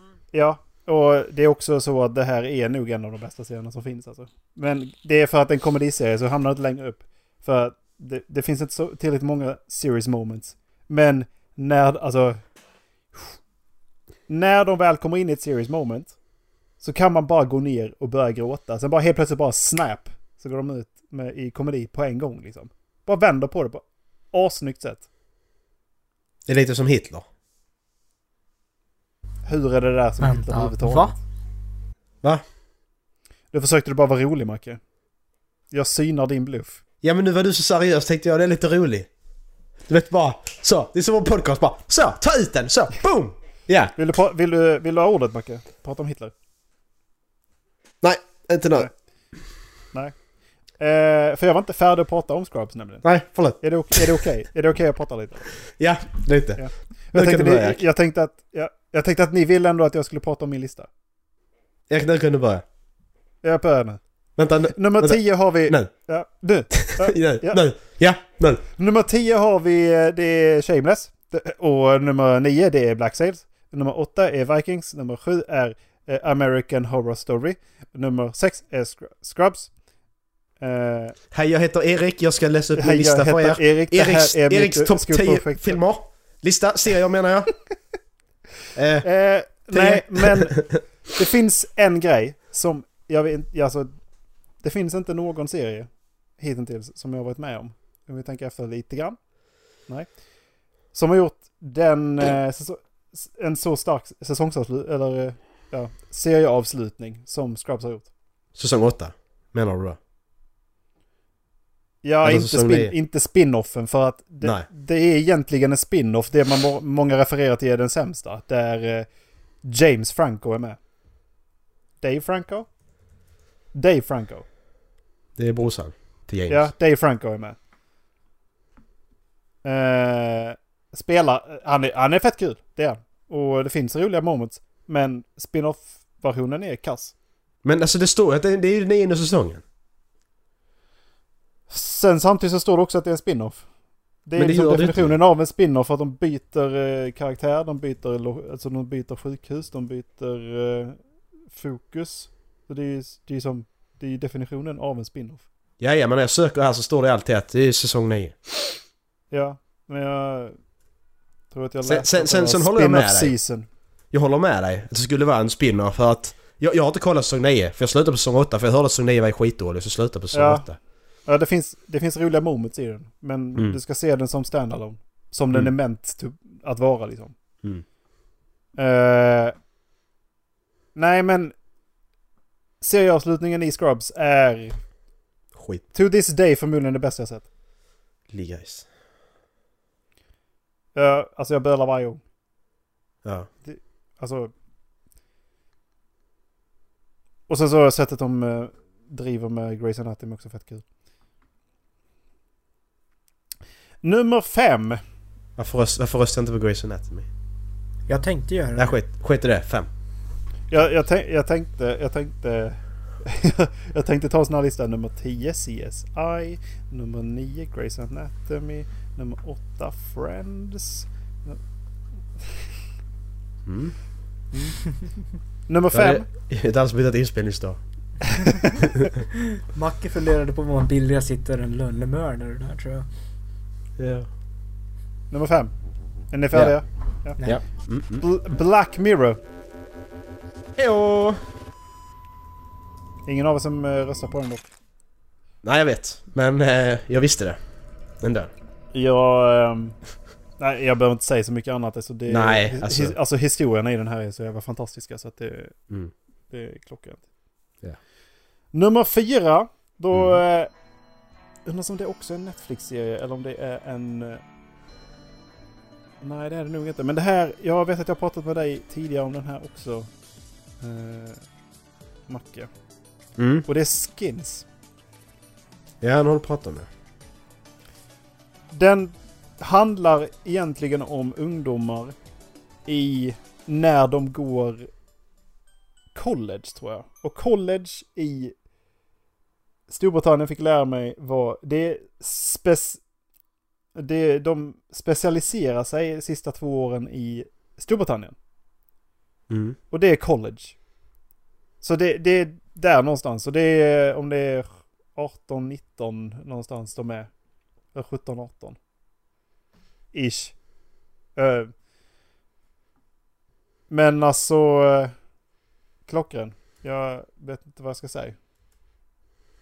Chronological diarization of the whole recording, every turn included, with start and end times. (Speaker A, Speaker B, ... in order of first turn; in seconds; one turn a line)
Speaker A: 0.3-12.4
Speaker A: 14.3-16.1
Speaker A: 16.8-25.1
Speaker B: 26.5-27.2
Speaker A: 29.4-31.2
Speaker C: 30.2-31.1
Speaker A: 33.5-34.8
Speaker A: 35.7-36.8
Speaker B: 37.0-39.1
Speaker B: 39.9-44.0
Speaker A: 44.0-46.3
Speaker B: 48.0-48.9
Speaker A: 50.8-53.0
Speaker B: 53.0-54.2
Speaker A: 53.6-55.5
Speaker B: 55.8-57.8
Speaker A: 56.6-60.9
Speaker B: 61.9-62.6
Speaker A: 63.4-64.0
Speaker B: 64.4-65.9
Speaker A: 64.8-67.6
Speaker B: 66.7-68.6
Speaker A: 68.8-79.7
Speaker A: 80.6-81.2
Speaker B: 81.3-87.5
Speaker A: 82.8-85.8
Speaker B: 88.8-89.1
Speaker A: 89.0-90.6
Speaker B: 89.7-90.8
Speaker A: 91.1-93.9
Speaker A: 94.6-99.2
Speaker A: 100.9-108.1
Speaker B: 108.6-110.0
Speaker A: 112.0-119.1
Speaker B: 112.2-112.9
Speaker B: 114.4-114.7
Speaker A: 119.6-120.8
Speaker A: 122.0-122.7
Speaker A: 123.7-124.5
Speaker B: 125.4-126.7
Speaker A: 126.5-127.6
Speaker A: 129.6-137.1
Speaker B: 137.6-139.6
Speaker A: 141.7-143.6
Speaker A: 144.3-151.0
Speaker B: 144.4-145.2
Speaker A: 151.5-155.4
Speaker B: 155.8-158.4
Speaker A: 159.3-160.6
Speaker A: 161.5-163.7
Speaker B: 161.8-163.4
Speaker B: 164.1-170.8
Speaker A: 170.3-170.7
Speaker A: 171.3-177.3
Speaker A: 178.8-179.6
Speaker A: 180.9-181.5
Speaker A: 182.8-184.8
Speaker B: 185.5-185.9
Speaker A: 185.9-187.5
Speaker B: 188.3-188.9
Speaker A: 190.9-192.2
Speaker A: 193.6-194.5
Speaker A: 197.5-200.8
Speaker A: 204.0-205.0
Speaker B: 205.6-207.3
Speaker C: 208.1-209.0
Speaker B: 208.8-209.9
Speaker A: 210.7-221.6
Speaker B: 223.7-223.9
Speaker A: 224.5-224.9
Speaker A: 225.7-226.3
Speaker B: 225.9-227.8
Speaker A: 228.4-228.8
Speaker C: 229.5-233.1
Speaker B: 234.0-234.3
Speaker A: 235.3-235.7
Speaker A: 236.3-237.4
Speaker B: 236.5-236.8
Speaker B: 237.4-238.2
Speaker A: 238.2-239.4
Speaker B: 240.8-241.4
Speaker A: 243.3-244.7
Speaker B: 245.6-247.6
Speaker B: 248.2-248.5
Speaker A: 248.9-250.0
Speaker A: 250.6-255.8
Speaker B: 252.3-253.2
Speaker A: 256.5-257.2
Speaker A: 258.7-260.7
Speaker B: 260.1-260.4
Speaker A: 261.7-264.4
Speaker A: 266.2-270.1
Speaker A: 270.8-271.4
Speaker A: 272.3-272.7
Speaker B: 273.4-273.7
Speaker A: 273.7-274.6
Speaker B: 276.0-276.9
Speaker A: 278.7-282.1
Speaker A: 282.9-284.9
Speaker A: 286.1-288.5
Speaker A: 289.9-293.0
Speaker A: 293.9-298.4
Speaker B: 299.5-299.8
Speaker A: 299.9-300.8
Speaker A: 301.8-307.3
Speaker A: 307.9-308.8
Speaker A: 310.1-310.6
Speaker A: 311.4-311.7
Speaker A: 313.9-315.1
Speaker A: 316.1-318.4